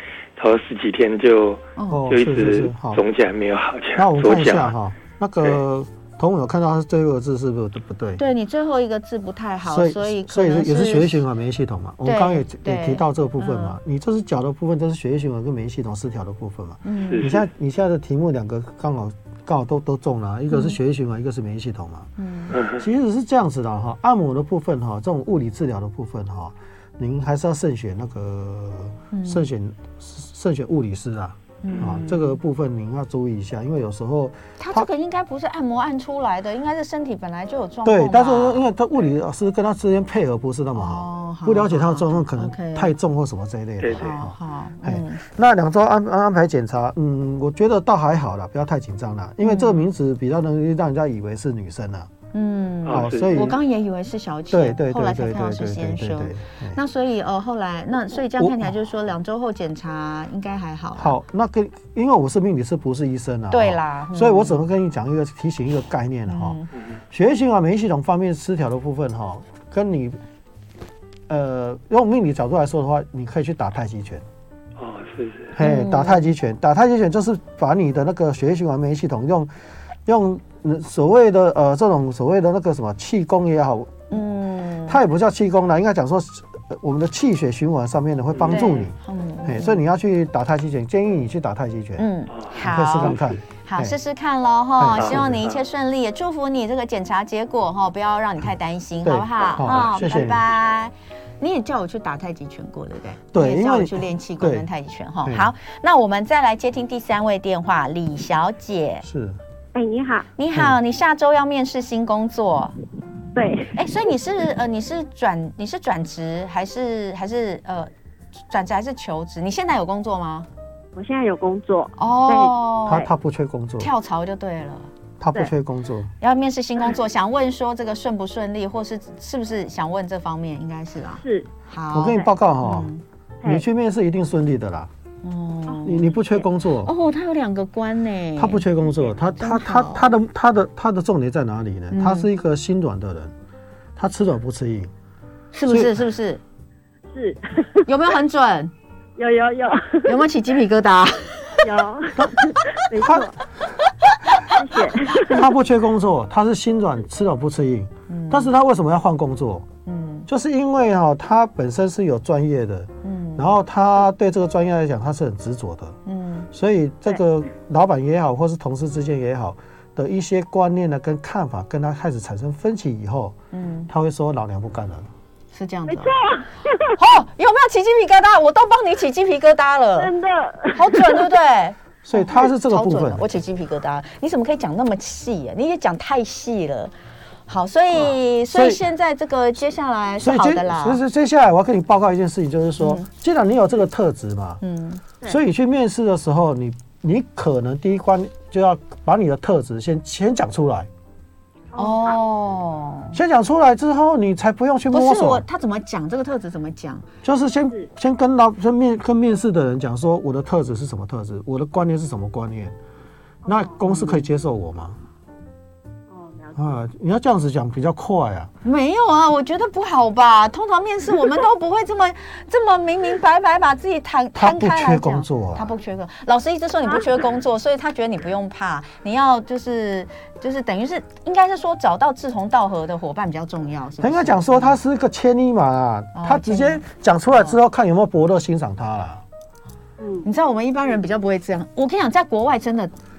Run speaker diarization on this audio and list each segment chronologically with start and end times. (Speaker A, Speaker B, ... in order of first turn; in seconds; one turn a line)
Speaker A: 0.3-4.7
Speaker B: 1.8-2.0
Speaker C: 1.9-3.0
Speaker C: 4.0-8.2
Speaker B: 8.2-11.2
Speaker C: 9.6-34.9
Speaker B: 12.0-13.8
Speaker B: 16.8-17.3
Speaker A: 17.0-17.4
Speaker B: 20.5-20.8
Speaker B: 22.2-22.6
Speaker A: 22.5-22.8
Speaker B: 29.1-29.5
Speaker B: 31.6-32.4
Speaker B: 34.6-38.6
Speaker C: 37.8-52.1
Speaker B: 40.7-42.9
Speaker A: 43.8-44.1
Speaker B: 44.0-45.2
Speaker B: 49.4-49.9
Speaker B: 52.3-61.1
Speaker A: 52.8-53.5
Speaker C: 52.9-53.6
Speaker C: 54.5-56.8
Speaker C: 58.4-58.7
Speaker C: 61.0-70.2
Speaker B: 63.5-64.6
Speaker B: 66.3-66.7
Speaker C: 71.3-74.2
Speaker A: 74.8-75.5
Speaker C: 75.5-79.5
Speaker B: 75.6-76.3
Speaker C: 80.0-84.2
Speaker B: 84.1-85.0
Speaker C: 84.8-94.0
Speaker A: 88.3-88.6
Speaker B: 88.4-89.8
Speaker B: 92.0-109.0
Speaker A: 92.3-93.4
Speaker C: 94.8-95.4
Speaker A: 95.0-95.6
Speaker C: 99.0-100.5
Speaker A: 99.7-99.9
Speaker C: 103.3-104.7
Speaker C: 105.2-105.5
Speaker C: 109.0-109.4
Speaker D: 109.7-110.3
Speaker B: 110.4-112.7
Speaker D: 113.3-113.8
Speaker B: 113.7-117.9
Speaker B: 118.5-120.5
Speaker D: 120.9-123.1
Speaker B: 122.0-123.0
Speaker C: 122.9-123.9
Speaker B: 123.8-124.9
Speaker C: 125.2-126.1
Speaker B: 126.2-133.0
Speaker D: 131.2-131.5
Speaker C: 131.9-132.9
Speaker C: 133.4-134.9
Speaker B: 135.2-136.2
Speaker D: 135.7-136.4
Speaker C: 135.8-136.9
Speaker B: 136.8-138.7
Speaker C: 138.3-143.3
Speaker B: 139.4-140.1
Speaker B: 141.9-142.3
Speaker C: 143.9-144.9
Speaker B: 145.5-146.4
Speaker C: 145.7-145.9
Speaker D: 147.1-147.9
Speaker B: 147.8-148.7
Speaker D: 149.2-150.2
Speaker B: 150.0-151.7
Speaker D: 151.6-153.4
Speaker C: 153.0-153.3
Speaker B: 154.1-154.4
Speaker D: 154.6-155.5
Speaker C: 155.2-159.7
Speaker B: 158.1-158.5
Speaker B: 159.8-160.3
Speaker C: 160.3-166.0
Speaker B: 163.0-163.5
Speaker B: 166.1-166.5
Speaker C: 166.5-173.3
Speaker B: 173.5-173.9
Speaker C: 173.9-175.1
Speaker B: 175.5-176.2
Speaker D: 175.9-176.9
Speaker B: 176.9-180.1
Speaker D: 179.9-181.3
Speaker B: 180.7-186.9
Speaker C: 182.0-183.3
Speaker B: 187.5-191.0
Speaker C: 187.9-188.8
Speaker C: 190.2-194.6
Speaker B: 192.8-193.1
Speaker B: 194.6-195.0
Speaker C: 195.2-200.9
Speaker D: 201.7-202.2
Speaker B: 201.8-203.2
Speaker C: 203.1-205.4
Speaker B: 204.9-207.1
Speaker C: 207.2-212.8
Speaker D: 213.5-213.8
Speaker C: 213.5-215.0
Speaker B: 213.8-214.2
Speaker D: 216.1-216.8
Speaker C: 216.5-218.5
Speaker B: 218.6-234.8
Speaker C: 224.3-225.7
Speaker C: 234.0-239.2
Speaker B: 236.1-237.6
Speaker D: 240.0-240.3
Speaker B: 240.2-242.9